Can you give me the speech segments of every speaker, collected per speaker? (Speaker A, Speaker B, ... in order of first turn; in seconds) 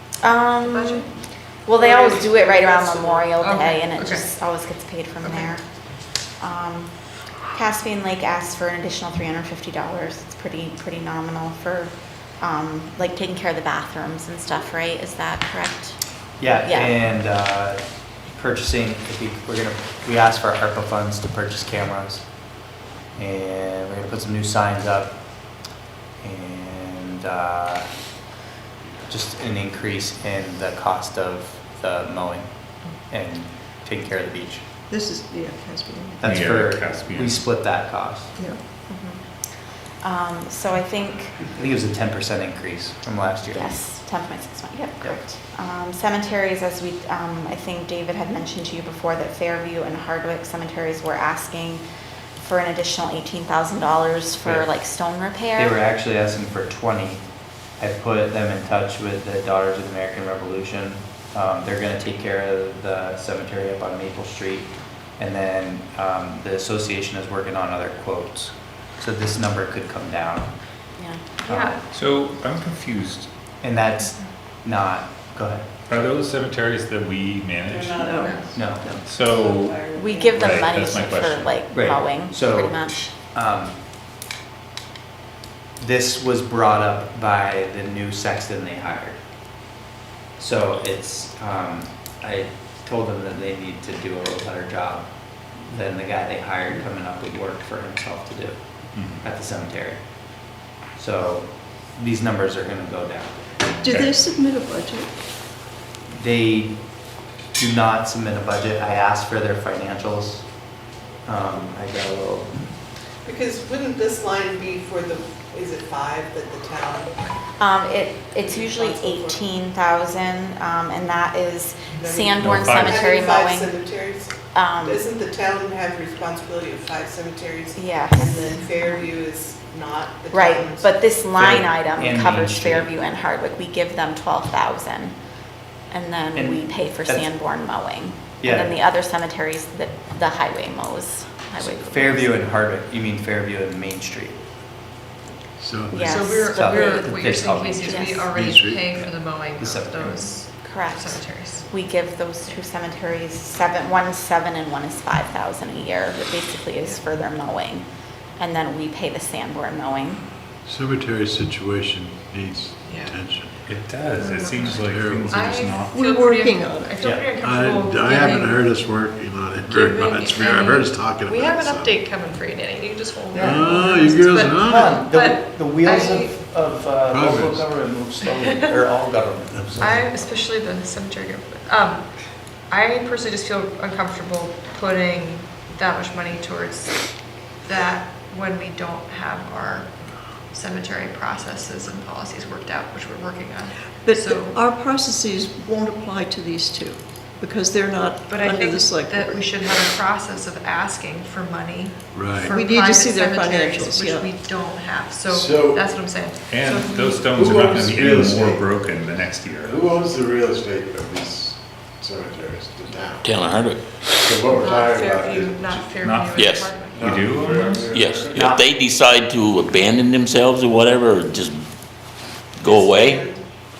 Speaker A: 0.2-1.1, 1.7-5.6, 6.4-6.9, 7.5-16.9, 38.9-39.2, 40.0-41.4, 43.5-51.8, 52.4-55.8, 71.0-71.2, 79.9-83.1, 117.6-123.8, 124.5-125.0, 127.8-129.1, 130.3-135.2, 135.9-142.4, 145.9-146.7, 147.9-148.2, 150.6-157.9, 158.4-160.2
Speaker B: 0.6-1.1, 3.4-4.2, 5.2-5.5, 71.5-71.8, 78.2-78.6, 146.0-151.7, 162.9-163.2, 164.1-168.7, 169.6-176.3, 179.8-194.6, 198.3-207.3, 214.6-217.1
Speaker C: 1.8-3.3, 113.2-117.2, 118.4-119.4, 122.0-131.0, 222.6-223.4
Speaker D: 16.4-22.3, 23.2-25.2, 26.2-27.9, 29.1-34.6, 36.2-38.3, 41.4-43.8, 55.6-57.2, 57.8-70.5, 71.5-71.8, 73.6-75.7, 78.5-79.0, 81.7-83.8, 85.8-89.2, 90.4-103.6, 106.1-106.8, 107.5-110.5, 111.2-112.7, 131.4-132.9, 136.3-137.3, 138.4-138.8, 141.6-144.4, 146.0-148.3, 149.6-150.4, 167.0-167.3, 173.3-173.9, 174.6-180.1, 218.3-218.7
Speaker E: 34.9-36.3, 77.9-80.3, 103.8-105.2, 165.9-167.1, 194.0-199.5, 202.4-204.4
Speaker F: 36.2-37.5, 71.9-73.3, 75.9-78.2, 79.0-81.6, 98.9-99.2, 103.8-104.1, 122.4-123.0, 163.7-166.0, 206.5-209.8, 216.0-217.9
Speaker G: 145.6-146.0, 148.3-149.0, 160.7-163.7, 164.8-165.5, 167.4-172.0, 173.3-175.0, 177.1-177.7, 202.1-202.5, 205.2-205.9, 207.3-209.1, 209.6-216.0, 216.9-218.5
Speaker H: 213.2-213.8, 216.3-217.2, 217.8-221.7, 222.6-223.2